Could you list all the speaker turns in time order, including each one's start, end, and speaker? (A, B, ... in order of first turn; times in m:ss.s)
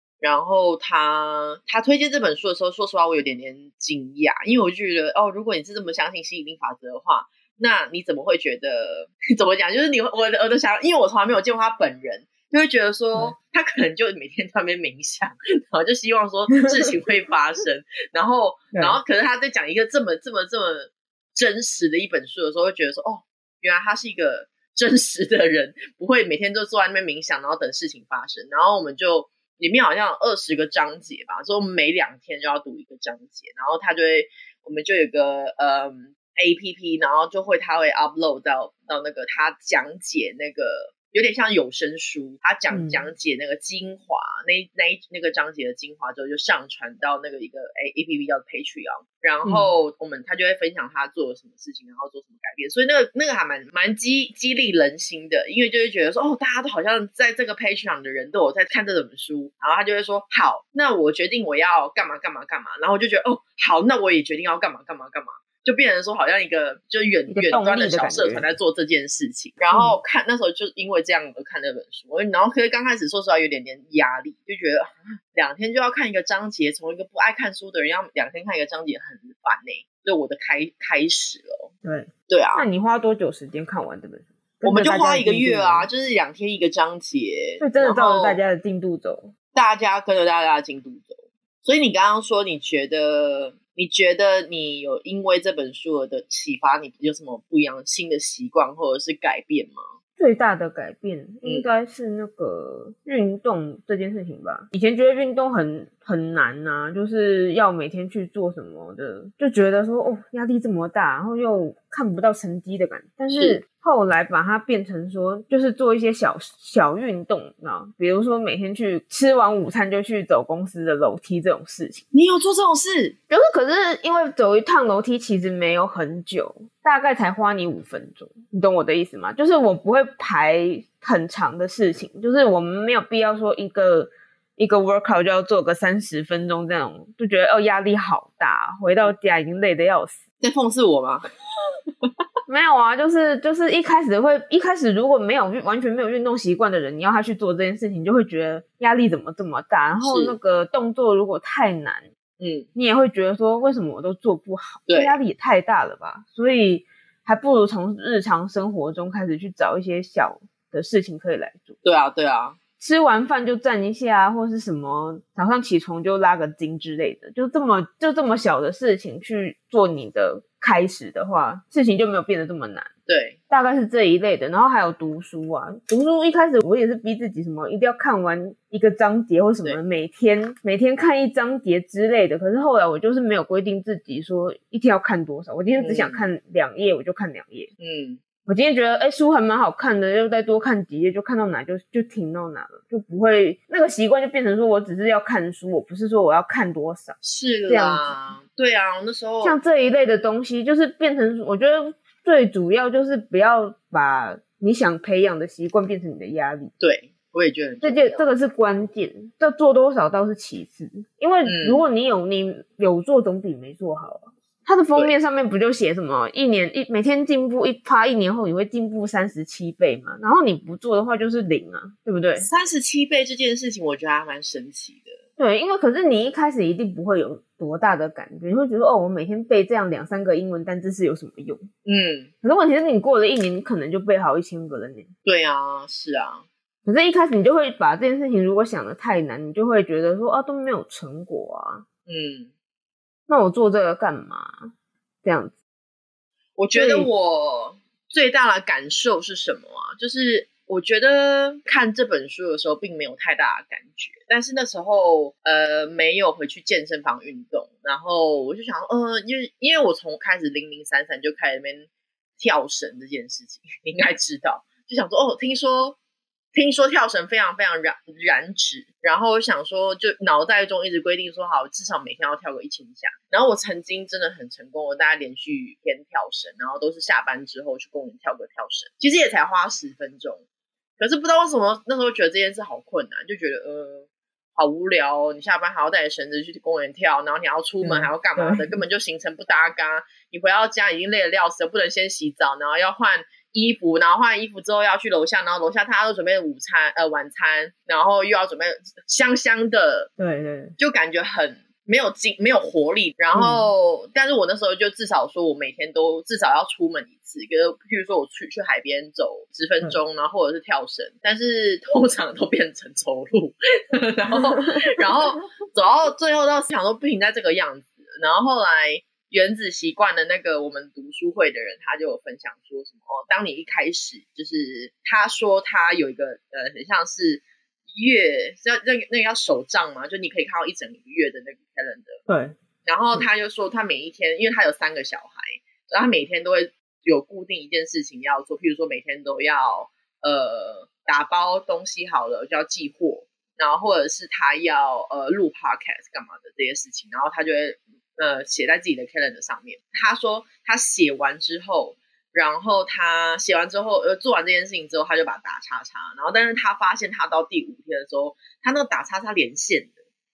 0:00.2-1:21.7 A
0:16.5-0:16.9 B
0:18.7-0:19.0 B
0:42.7-0:43.1 B
0:49.4-0:49.7 B
1:07.3-1:08.5 B
1:09.7-1:10.0 B
1:21.8-1:25.9 B
1:22.3-1:22.6 A
1:24.6-1:28.4 A
1:27.6-1:29.3 B
1:29.5-1:39.8 A
1:40.2-2:02.0 B
1:53.3-1:53.6 A
2:02.1-2:03.1 A
2:03.3-2:20.2 B
2:20.4-2:21.2 A
2:22.5-2:32.0 B
2:30.0-2:30.4 A
2:32.4-2:32.7 A
2:32.7-2:41.8 B
2:34.9-2:35.2 A
2:41.8-2:42.6 A
2:42.8-2:52.9 B
2:53.1-2:53.4 A
2:53.5-3:07.7 B
3:05.8-3:06.3 A
3:07.8-3:08.2 A
3:08.4-3:17.2 B
3:17.2-3:19.6 A
3:17.7-3:18.1 B
3:19.4-3:26.7 B
3:26.8-3:28.2 A
3:27.8-3:42.5 B
3:31.4-3:31.8 A
3:42.4-3:45.2 A
3:45.4-3:51.7 B
3:51.8-3:52.3 A
3:52.4-3:55.1 B
3:55.2-3:56.4 A
3:56.8-4:01.8 B
4:02.1-4:02.5 A
4:03.3-4:04.7 B
4:05.2-4:05.5 B
4:06.6-4:21.9 A
4:06.7-4:07.1 B
4:22.4-4:26.0 A
4:26.5-4:40.4 A
4:41.0-5:00.1 A
4:47.8-4:48.8 B
5:00.2-5:00.8 B
5:00.8-5:32.2 A
5:03.3-5:03.7 B
5:32.3-5:32.6 B
5:32.8-5:59.9 A